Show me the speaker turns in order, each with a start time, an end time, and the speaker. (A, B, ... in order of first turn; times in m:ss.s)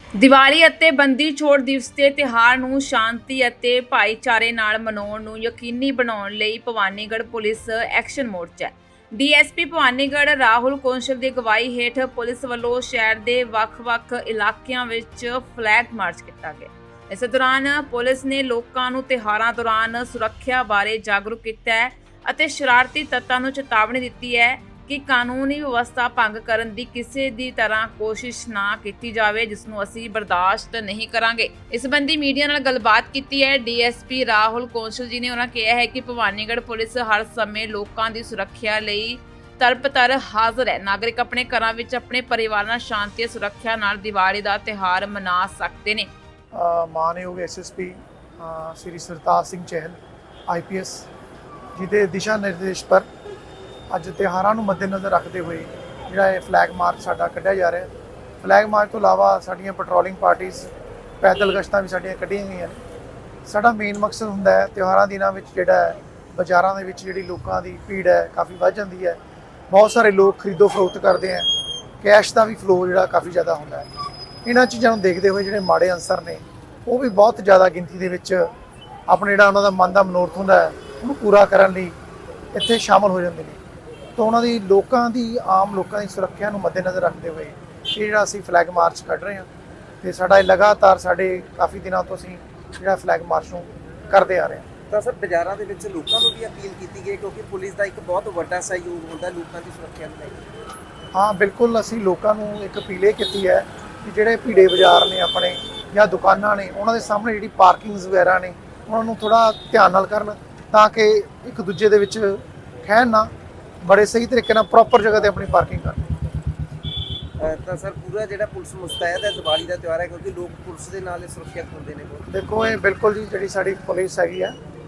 0:00.2-0:46.1 A
0:46.5-0:51.1 B
0:51.8-0:53.1 B
0:53.9-0:57.9 B
0:58.4-1:00.7 B
1:01.2-1:02.8 B
1:03.4-1:11.5 B
1:12.0-1:13.9 B
1:14.4-1:18.5 B
1:19.1-1:22.0 B
1:22.5-1:23.6 B
1:24.2-1:29.5 B
1:30.0-1:34.7 B
1:34.9-1:40.4 C
1:41.1-1:53.3 B
1:53.8-1:56.1 B
1:57.4-2:02.3 C
2:02.3-2:04.6 B